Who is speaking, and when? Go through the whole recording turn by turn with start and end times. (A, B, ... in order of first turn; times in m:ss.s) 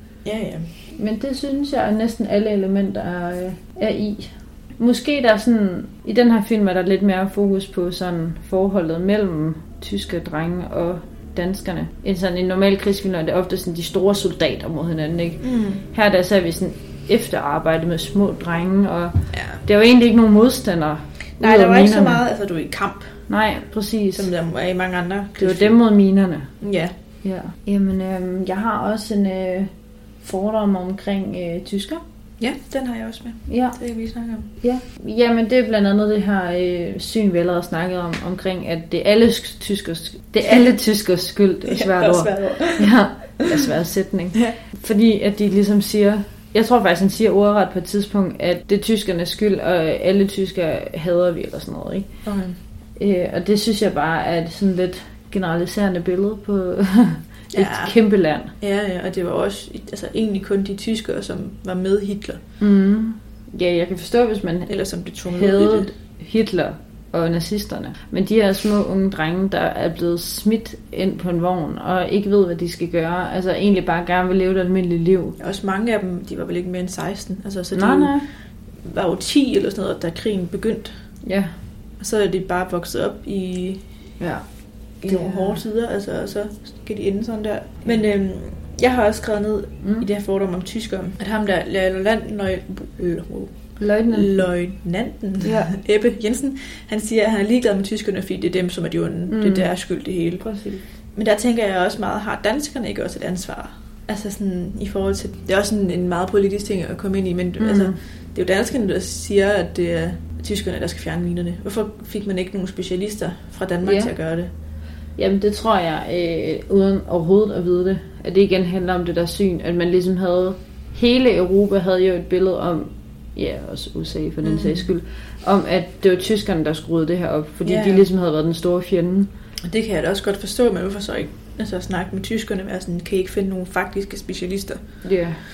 0:00.2-0:00.7 A
0:01.0-0:22.2 B
0:15.4-0:15.8 A
0:19.3-0:19.6 A
0:21.4-0:23.1 A
0:23.3-0:24.3 B
0:24.2-0:25.8 A
0:25.4-0:26.5 B
0:26.6-0:26.9 A
0:27.2-0:29.7 B
0:30.2-0:32.0 B
0:32.4-0:34.5 A
0:33.5-0:33.8 B
0:34.6-0:52.2 B
0:41.7-0:42.9 A
0:52.2-0:52.6 A
0:53.0-0:58.5 B
0:57.5-0:58.0 A
0:58.6-1:02.4 A
1:02.6-1:04.7 B
1:04.7-1:05.9 A
1:05.3-1:15.4 B
1:15.4-1:18.2 A
1:17.7-1:18.3 B
1:18.8-1:20.9 A
1:21.2-1:21.5 B
1:22.0-1:23.8 A
1:24.2-1:24.4 B
1:25.0-1:25.6 B
1:25.0-1:33.6 A
1:29.8-1:30.1 B
1:33.8-1:34.5 B
1:34.1-1:40.4 A
1:35.4-1:35.7 B
1:39.3-1:39.7 B
1:40.4-1:40.8 B
1:41.2-1:54.5 A
1:47.6-1:48.0 B
1:53.8-1:54.1 B
1:55.2-2:09.3 B
2:04.4-2:04.9 A
2:07.6-2:08.0 A
2:09.6-2:15.0 A
2:15.0-2:15.4 B